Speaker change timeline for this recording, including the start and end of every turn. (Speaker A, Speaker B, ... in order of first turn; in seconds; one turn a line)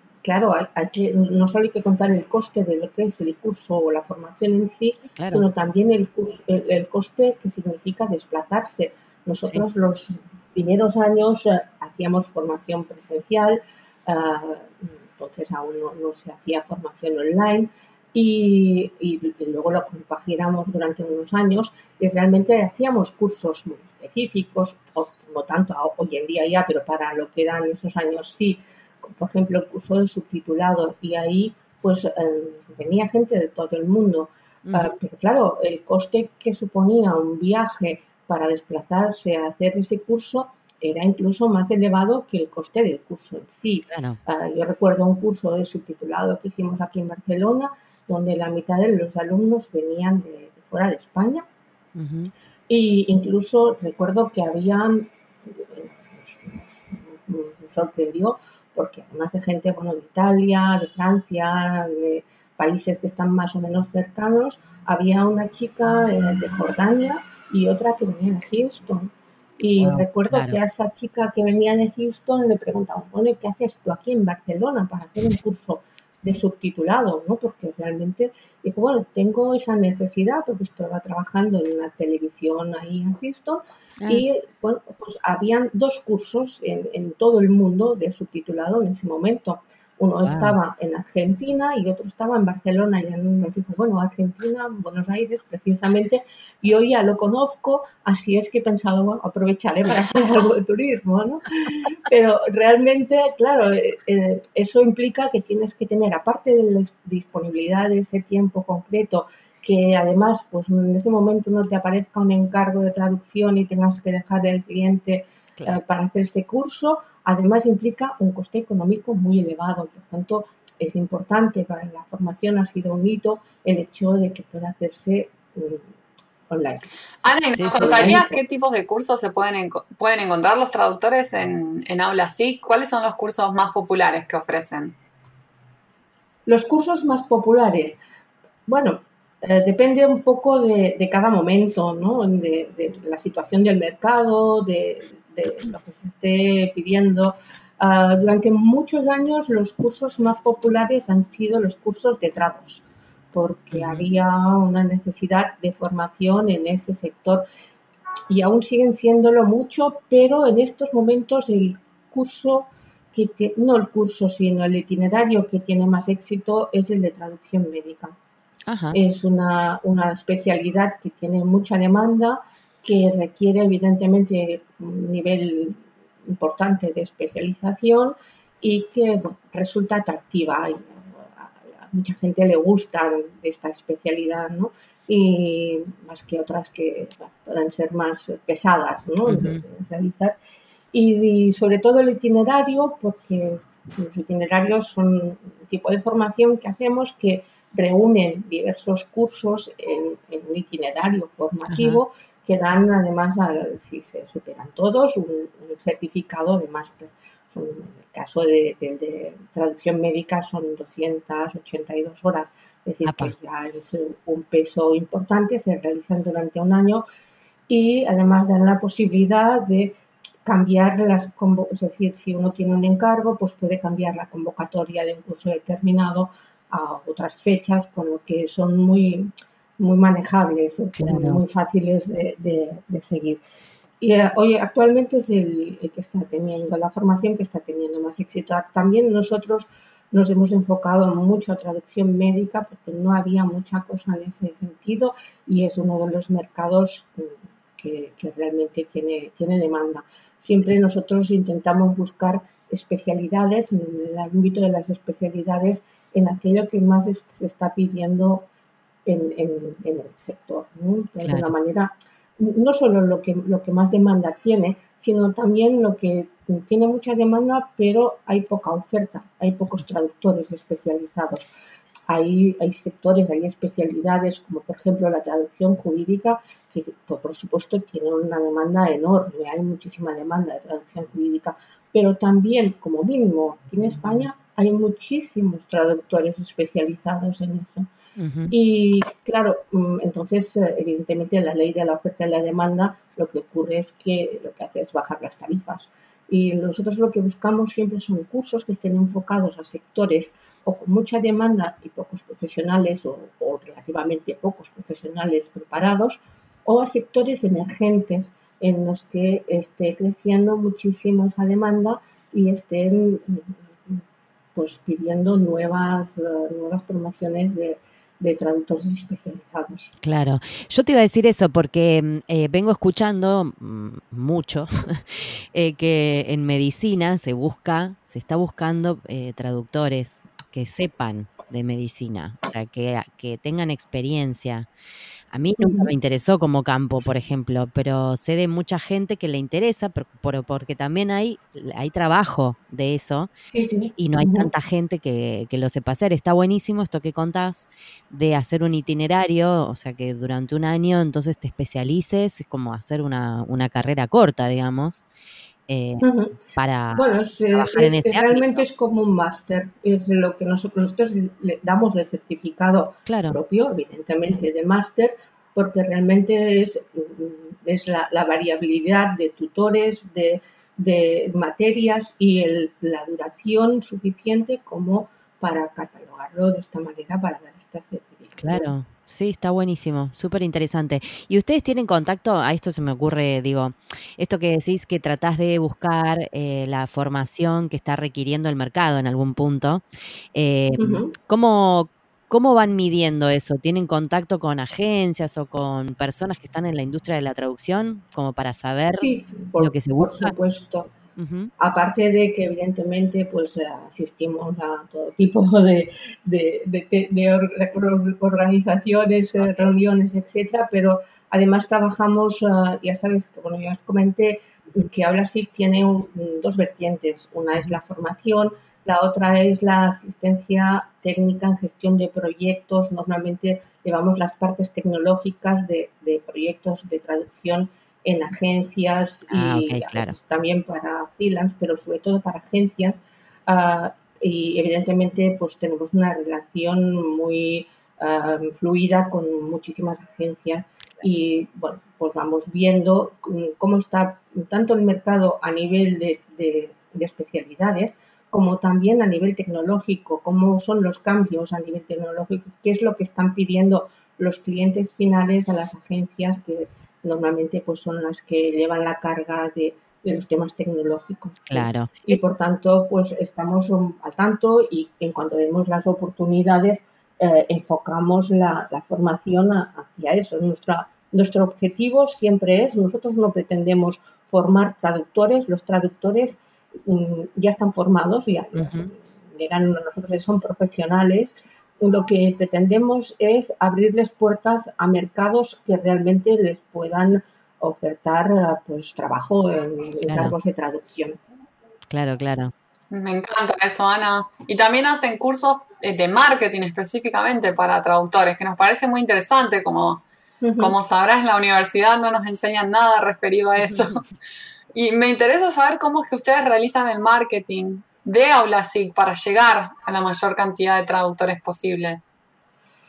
Speaker A: 0.2-51.5
Speaker B: 5.2-5.4
Speaker B: 34.6-34.9
Speaker B: 43.9-44.2
Speaker B: 52.0-52.3
Speaker A: 52.7-125.9
Speaker B: 69.8-70.6
Speaker B: 90.2-90.5
Speaker A: 126.5-126.9
Speaker C: 127.2-134.9
Speaker B: 127.6-128.2
Speaker A: 127.8-128.4
Speaker A: 136.5-138.0
Speaker A: 138.7-157.4
Speaker B: 153.7-154.1
Speaker A: 158.3-168.2
Speaker B: 168.7-169.0
Speaker A: 168.9-190.3
Speaker B: 189.2-189.6
Speaker A: 190.9-217.0
Speaker B: 201.7-202.0
Speaker B: 213.0-213.3
Speaker A: 217.7-233.4
Speaker B: 230.9-231.4
Speaker A: 234.0-258.5
Speaker A: 259.0-271.5
Speaker B: 261.2-261.5
Speaker A: 272.1-287.9
Speaker B: 288.2-288.5
Speaker A: 288.5-314.0
Speaker A: 314.5-319.9
Speaker B: 320.0-334.7
Speaker B: 335.3-343.3
Speaker A: 335.6-335.9
Speaker A: 343.5-344.5
Speaker B: 344.0-355.0
Speaker B: 355.7-358.6
Speaker A: 356.0-378.7
Speaker B: 363.1-363.4
Speaker B: 378.4-400.3
Speaker A: 390.8-391.1
Speaker A: 399.0-400.9
Speaker B: 401.1-401.5
Speaker A: 401.6-491.2
Speaker B: 429.3-430.1
Speaker B: 461.5-462.2
Speaker B: 478.5-478.9
Speaker B: 490.1-490.3
Speaker B: 491.9-492.5
Speaker C: 492.9-500.0
Speaker A: 500.4-500.7
Speaker C: 500.6-504.0
Speaker C: 504.7-512.1